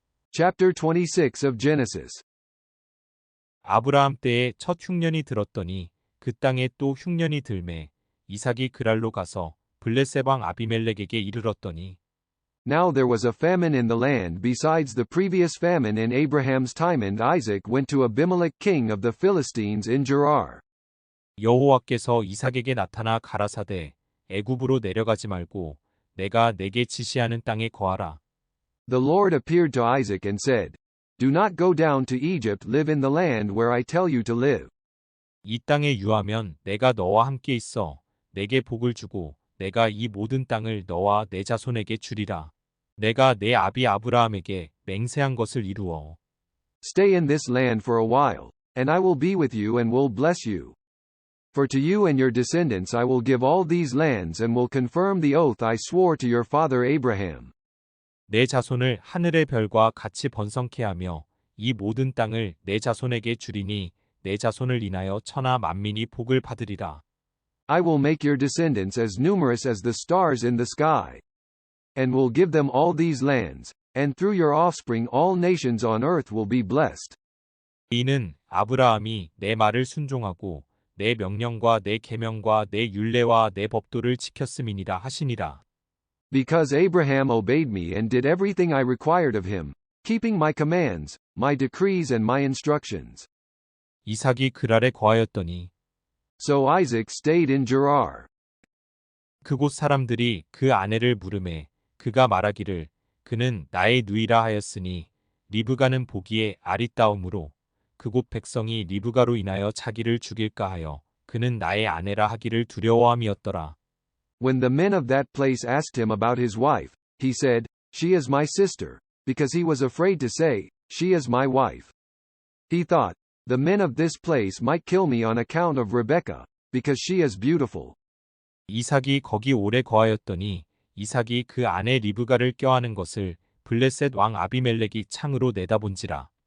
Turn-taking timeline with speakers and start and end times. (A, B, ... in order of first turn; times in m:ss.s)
0:00.3-0:02.2 A
0:03.6-0:12.0 B
0:12.6-0:20.6 A
0:21.4-0:28.2 B
0:28.9-0:34.7 A
0:35.4-0:46.2 B
0:46.8-0:50.8 A
0:51.5-0:57.5 A
0:58.3-1:07.0 B
1:07.7-1:11.2 A
1:12.0-1:17.2 A
1:17.9-1:25.6 B
1:26.3-1:33.3 A
1:34.1-1:35.7 B
1:36.4-1:38.3 A
1:39.4-1:53.8 B
1:54.4-2:01.9 A
2:02.7-2:08.0 A
2:08.7-2:16.3 B